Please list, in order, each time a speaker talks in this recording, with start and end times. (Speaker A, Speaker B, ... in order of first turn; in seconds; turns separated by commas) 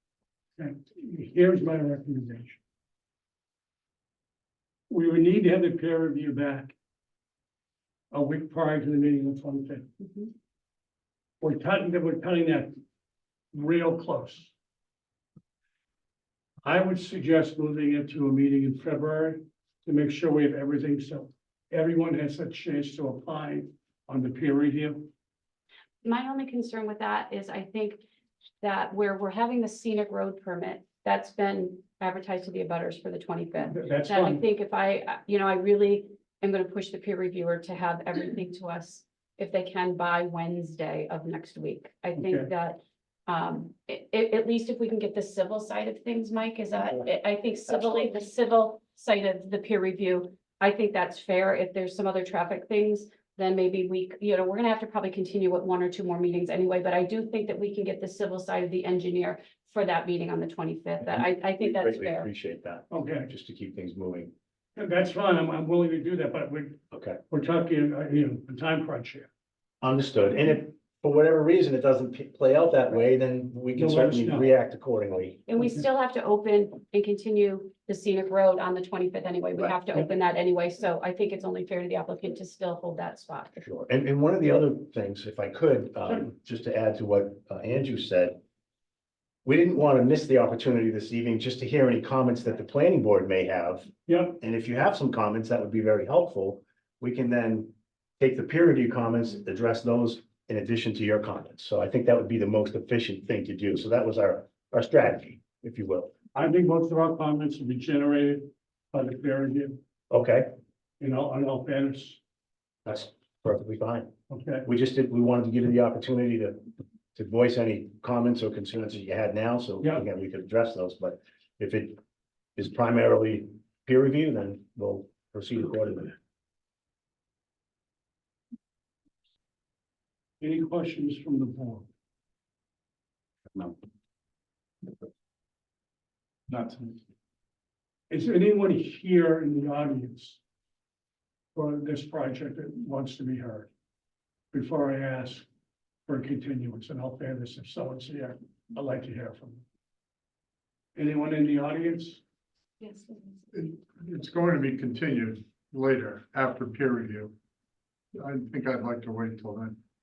Speaker A: 0.6-2.6, Speaker A: 4.9-6.7, Speaker A: 8.1-9.9, Speaker B: 10.0-10.3, Speaker A: 11.4-12.7, Speaker A: 13.5-14.5, Speaker A: 16.6-25.1, Speaker B: 26.0-28.0, Speaker B: 28.6-62.3, Speaker A: 33.7-34.4, Speaker A: 42.1-42.5, Speaker C: 61.0-64.3, Speaker A: 62.9-63.3, Speaker A: 64.8-69.3, Speaker C: 66.9-67.2, Speaker C: 69.8-75.4, Speaker A: 73.7-74.5, Speaker B: 75.5-83.6, Speaker A: 75.6-75.8, Speaker C: 83.6-88.4, Speaker C: 89.4-106.1, Speaker A: 94.1-94.3, Speaker A: 106.3-109.8, Speaker C: 110.1-110.5, Speaker A: 111.0-112.2, Speaker C: 112.8-114.1, Speaker A: 114.3-114.7, Speaker C: 114.6-122.0, Speaker C: 122.6-126.1, Speaker A: 130.4-131.9, Speaker A: 138.1-140.4, Speaker A: 141.5-143.7, Speaker A: 144.5-145.4, Speaker A: 146.1-149.6, Speaker A: 150.9-152.2, Speaker B: 152.8-153.4, Speaker D: 153.5-157.3, Speaker D: 158.1-159.8